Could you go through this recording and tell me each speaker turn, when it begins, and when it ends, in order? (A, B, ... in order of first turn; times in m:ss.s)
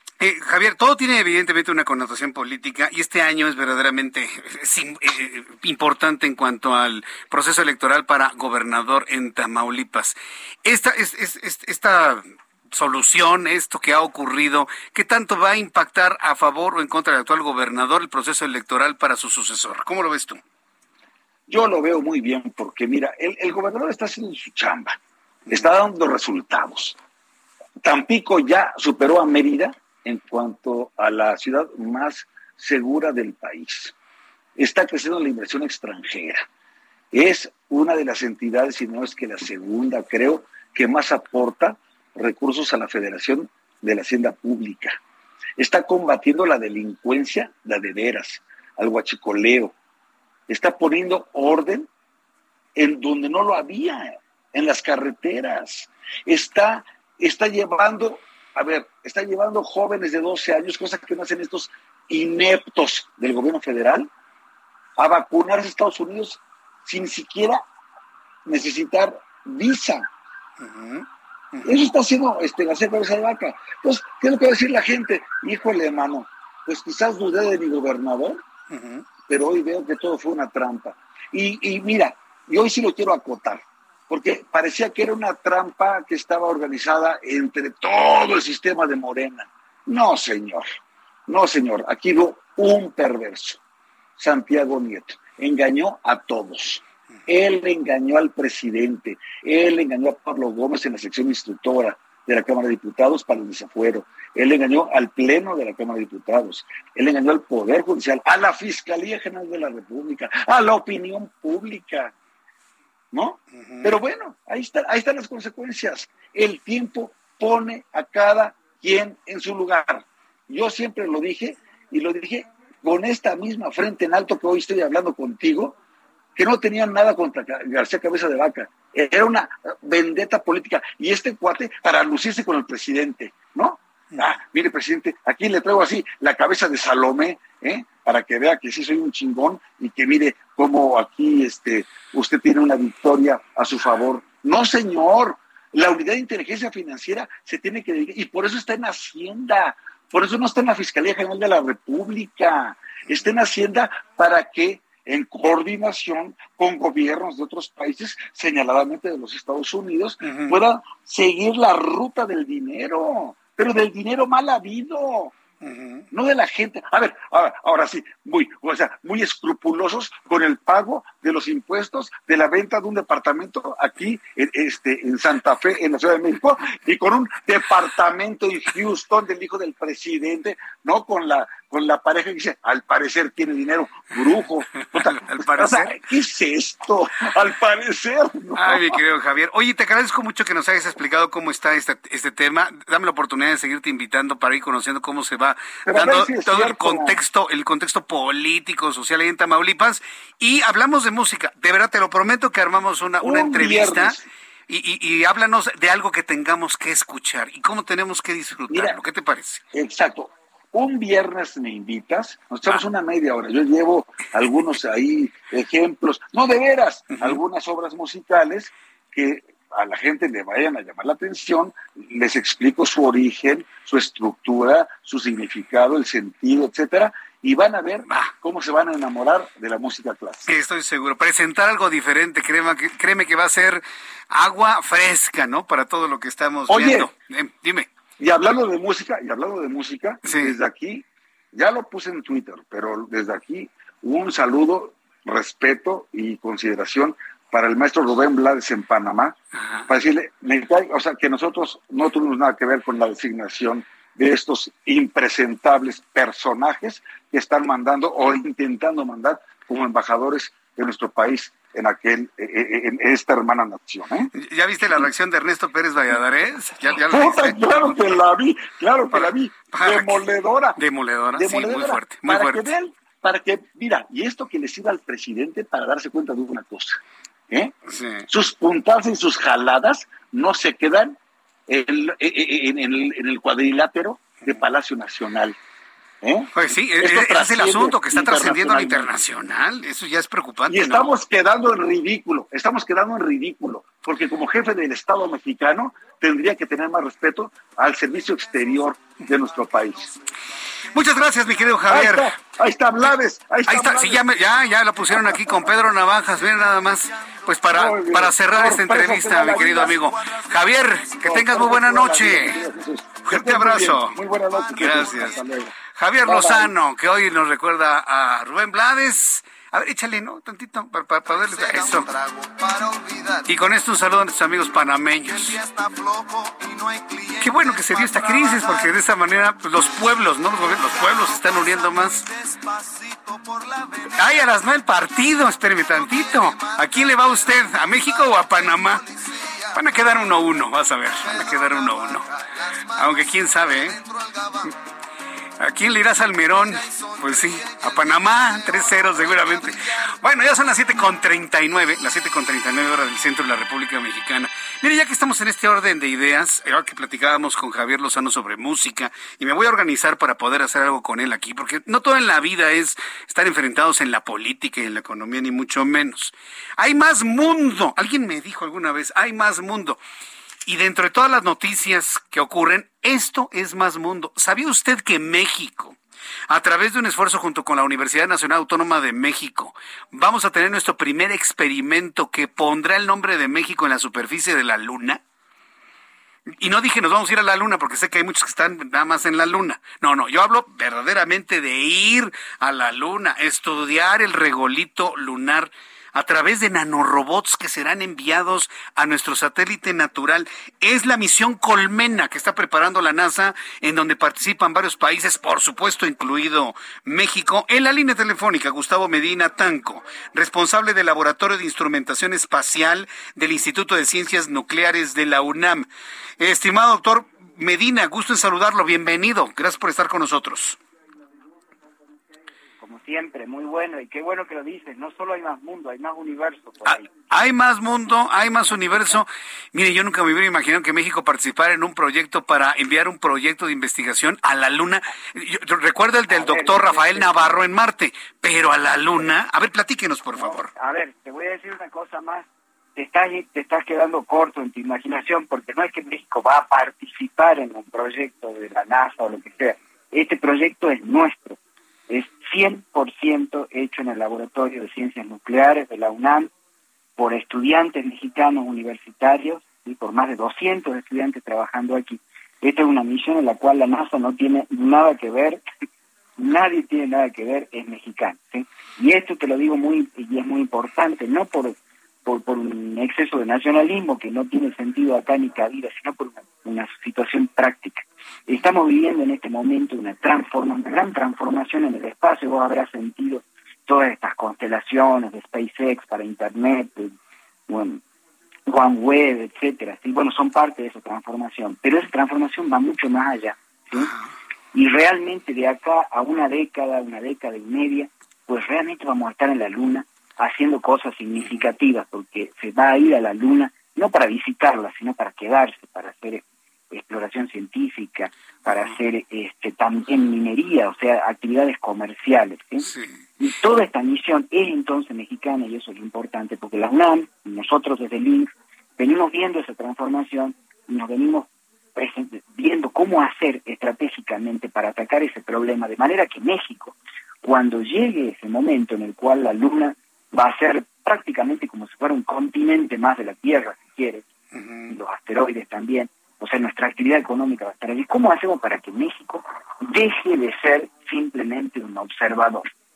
0:00.2-0:20.4 A
0:21.5-0:27.0 B
0:27.8-0:33.9 B
0:34.6-0:36.4 B
0:37.1-0:45.0 B
0:45.6-0:49.7 B
0:50.5-0:51.9 B
0:52.8-1:04.1 B
1:05.0-1:07.6 B
1:08.4-1:10.1 B
1:10.6-1:11.9 A
1:11.6-1:18.4 B
1:18.7-1:19.0 A
1:19.2-1:30.8 B
1:31.3-1:33.6 B
1:34.2-1:52.1 B
1:53.1-2:05.8 B
1:53.7-1:53.9 A
2:06.4-2:45.3 B
2:40.2-2:40.6 A
2:45.6-2:46.1 A
2:46.1-3:09.0 B
3:05.0-3:06.0 A
3:08.6-3:29.6 A
3:15.8-3:17.2 B
3:23.2-3:24.2 B
3:28.7-3:29.0 B
3:29.7-3:50.5 B
3:34.4-3:34.8 A
3:37.1-3:37.4 A
3:48.1-3:48.3 A
3:50.5-3:57.9 A
3:56.7-3:57.1 B
3:58.2-4:09.4 B
4:00.2-4:00.6 A
4:09.6-4:09.8 A
4:09.9-4:24.3 B
4:24.3-4:28.0 A
4:27.0-4:30.8 B
4:29.1-4:30.2 A
4:30.8-4:32.7 A
4:31.4-4:37.7 B
4:37.9-4:38.2 A
4:38.3-4:41.2 B
4:41.7-4:45.6 B
4:46.2-4:49.1 B
4:46.5-4:51.1 A
4:50.7-5:00.2 B
5:00.9-5:02.4 A
5:01.9-5:04.2 B
5:03.7-5:12.6 A
5:05.1-5:05.7 B
5:07.7-5:10.0 B
5:11.2-5:16.7 B
5:13.2-5:14.2 A
5:14.7-5:15.4 A
5:15.9-5:22.2 A
5:23.4-5:25.6 A
5:27.4-5:32.3 A
5:34.1-5:39.1 A
5:39.7-5:42.2 A
5:42.9-5:44.0 A
5:45.6-6:10.0 A
6:10.6-6:16.0 A
6:16.5-6:25.2 A
6:26.6-6:55.9 A
6:56.4-7:00.8 A
7:02.8-7:07.0 C
7:06.8-7:20.7 A
7:08.7-7:09.2 C
7:16.3-7:17.6 C
7:20.3-7:31.6 C
7:32.1-7:36.5 C
7:37.2-7:45.6 C
7:46.4-8:07.2 C
8:07.7-8:08.0 C
8:08.7-8:14.1 C
8:13.9-8:14.3 A
8:14.7-8:54.2 C
8:21.4-8:21.7 A
8:28.6-8:29.0 A
8:32.8-8:33.2 A
8:54.5-8:54.9 A
8:54.9-9:02.7 C